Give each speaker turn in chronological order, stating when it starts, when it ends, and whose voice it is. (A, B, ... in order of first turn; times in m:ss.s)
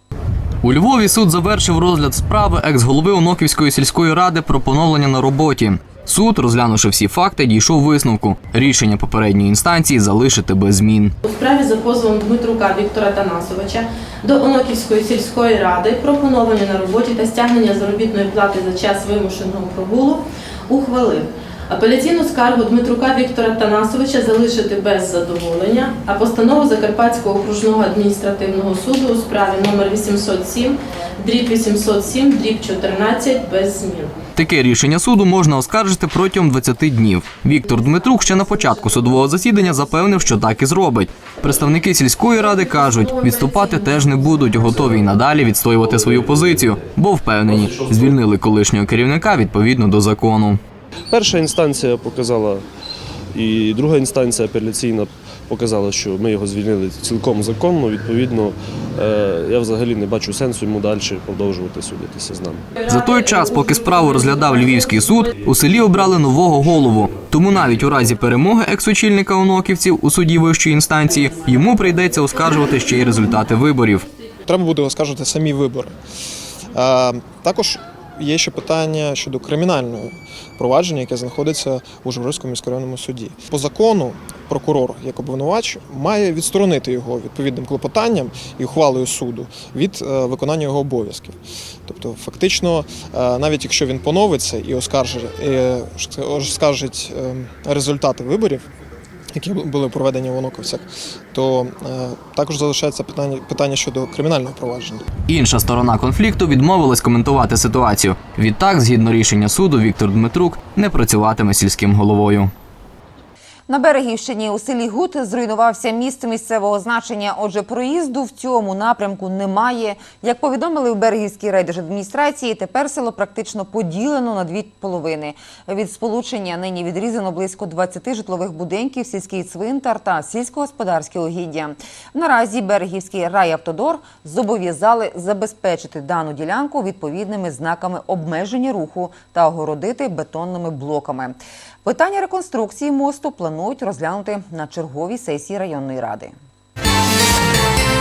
0:00.6-0:11.1 A
0:11.2-0:34.2 B
0:34.4-0:50.6 A
0:42.4-0:44.8 B
0:45.9-0:46.6 C
0:47.5-0:48.2 C
0:51.1-0:52.6 C
0:53.3-1:02.6 C
1:02.8-1:14.0 A
1:14.5-1:15.9 D
1:16.7-1:38.6 D
1:39.3-1:45.0 D
1:45.3-1:52.5 A
1:53.7-2:26.3 E